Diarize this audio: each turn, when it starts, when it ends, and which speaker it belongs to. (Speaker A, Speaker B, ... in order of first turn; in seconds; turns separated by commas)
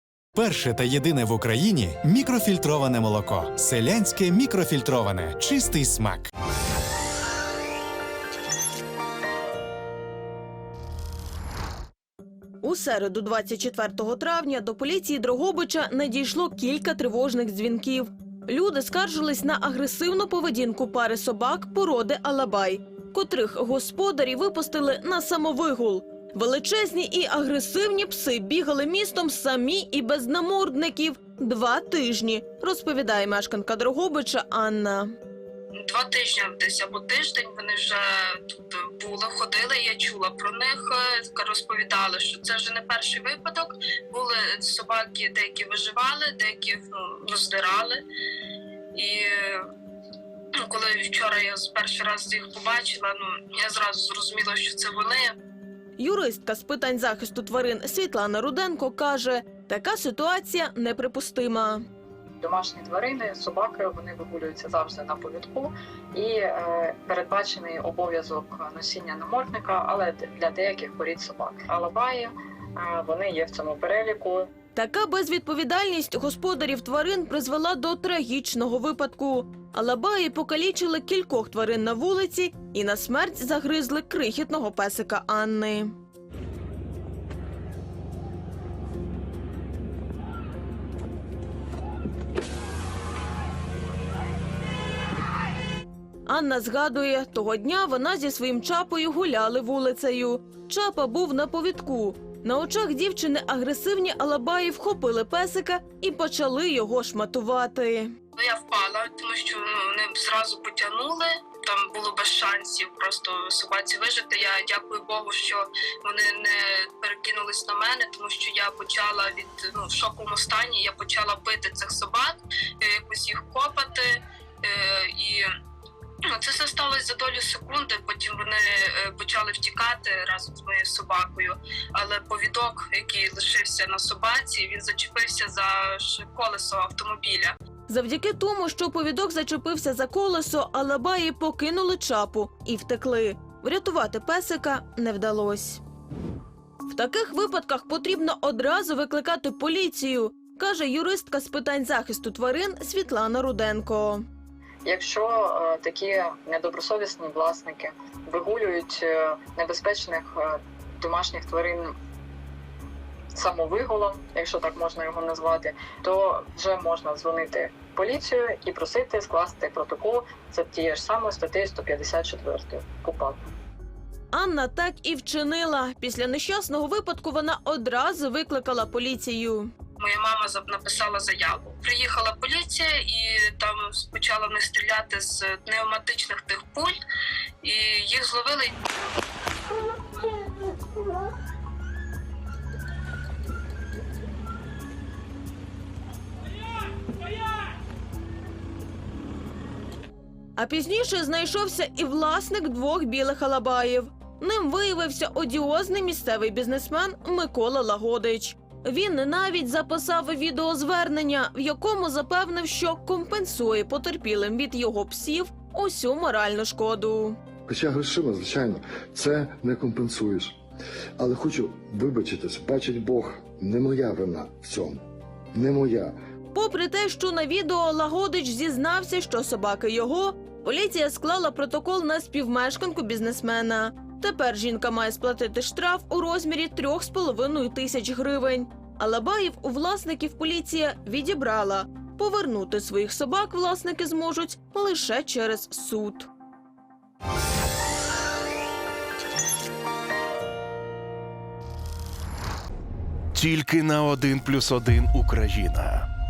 Speaker A: 0.3-6.3, Speaker B: 12.6-35.1, Speaker C: 35.8-48.0, Speaker C: 49.0-49.6, Speaker C: 50.6-55.4, Speaker B: 56.0-61.8, Speaker D: 62.4-74.5, Speaker B: 74.8-85.9, Speaker B: 96.3-108.1, Speaker C: 108.4-125.5, Speaker C: 126.3-137.5, Speaker B: 137.9-145.8, Speaker B: 146.9-154.2, Speaker D: 154.8-161.9, Speaker D: 163.3-173.4, Speaker B: 174.3-179.7, Speaker C: 180.0-186.9, Speaker C: 187.6-188.8, Speaker B: 200.6-217.4, Speaker E: 217.7-220.5, Speaker E: 221.2-225.0, Speaker E: 225.5-226.1, Speaker B: 226.5-246.3, Speaker F: 253.3-256.1